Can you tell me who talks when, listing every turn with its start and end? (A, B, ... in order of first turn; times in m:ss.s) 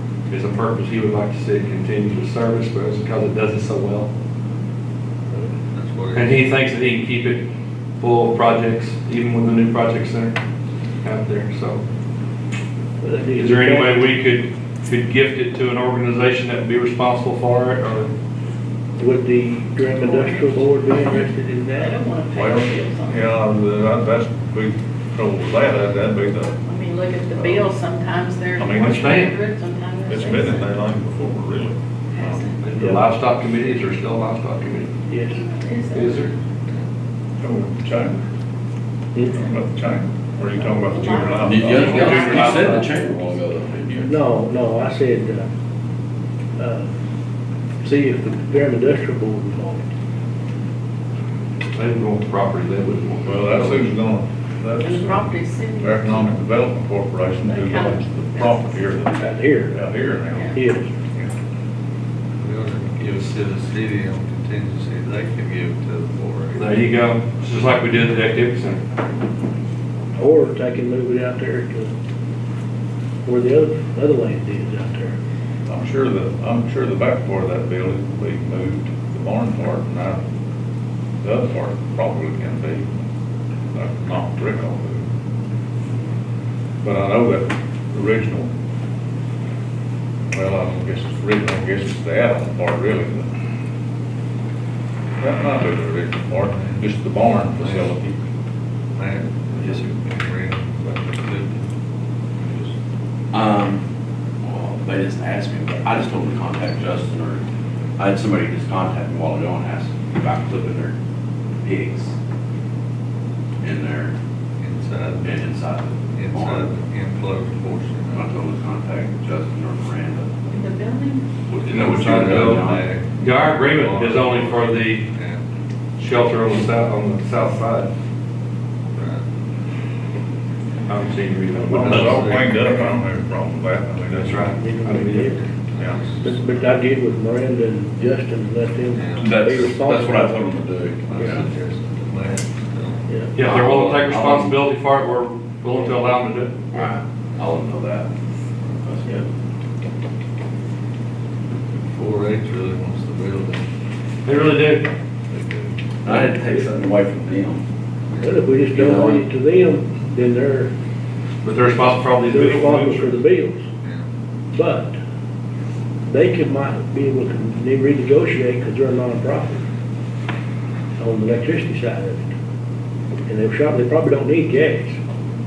0:00.3-0:04.1 A
0:05.7-0:06.5 B
0:06.1-0:07.4 A
0:08.0-0:10.4 A
0:11.0-0:11.8 A
0:13.0-0:14.1 C
0:13.4-0:18.1 A
0:19.0-0:21.9 C
0:19.9-0:23.3 D
0:22.2-0:26.6 E
0:26.5-0:30.9 D
0:27.3-0:27.7 E
0:28.6-0:29.2 E
0:28.8-0:29.3 A
0:30.1-0:32.5 E
0:32.1-0:32.6 D
0:32.6-0:34.9 A
0:32.8-0:33.0 C
0:35.1-0:35.4 C
0:35.3-0:36.3 D
0:35.9-0:36.3 A
0:36.3-0:36.8 B
0:37.4-0:38.2 E
0:39.3-0:42.8 E
0:40.5-0:43.1 D
0:41.4-0:44.2 F
0:41.8-0:42.9 A
0:44.0-0:45.5 C
0:46.6-0:46.9 C
0:47.8-0:49.9 C
0:51.7-0:53.9 A
0:53.2-1:01.3 E
0:54.8-0:56.4 D
0:57.4-0:59.0 D
0:59.0-0:59.8 C
1:00.2-1:00.6 D
1:00.5-1:01.0 C
1:02.4-1:06.8 B
1:06.5-1:08.8 A
1:10.2-1:11.9 C
1:13.2-1:15.1 C
1:15.7-1:20.2 E
1:21.2-1:22.9 E
1:23.7-1:25.0 E
1:26.8-1:28.5 E
1:30.3-1:33.3 E
1:35.2-1:38.2 E
1:36.5-1:36.8 B
1:37.5-1:38.0 B
1:39.0-1:41.7 B
1:42.4-1:42.7 B
1:43.3-1:43.8 F
1:44.4-1:47.4 F
1:48.0-1:51.0 F
1:51.6-1:52.2 F
1:53.6-1:54.2 F
1:54.6-1:58.3 B
1:55.2-1:56.7 F
1:58.1-2:00.3 F
2:00.5-2:01.2 D
2:01.5-2:02.8 F
2:01.7-2:05.4 B
2:01.7-2:02.6 A
2:03.2-2:05.0 A
2:06.0-2:07.9 A
2:08.9-2:09.2 B
2:10.9-2:12.4 A
2:11.6-2:14.6 E
2:11.7-2:13.0 B
2:14.1-2:15.4 A
2:14.6-2:15.5 C
2:15.3-2:16.6 B
2:15.7-2:16.2 E
2:16.2-2:20.4 C
2:18.9-2:20.0 B
2:19.2-2:21.4 F
2:21.0-2:23.0 B
2:23.1-2:23.4 C
2:23.4-2:26.6 A
2:23.4-2:24.6 F
2:26.7-2:28.1 F
2:28.8-2:29.2 F
2:31.9-2:33.6 B
2:34.2-2:34.9 A
2:35.3-2:35.7 B
2:36.0-2:37.6 F
2:36.1-2:36.8 C
2:38.1-2:38.4 B
2:38.2-2:40.7 C
2:38.7-2:39.2 F
2:41.4-2:43.2 A
2:42.2-2:43.6 C
2:44.5-2:45.0 C
2:46.0-2:49.6 C
2:51.0-2:52.3 C
2:53.3-2:55.0 C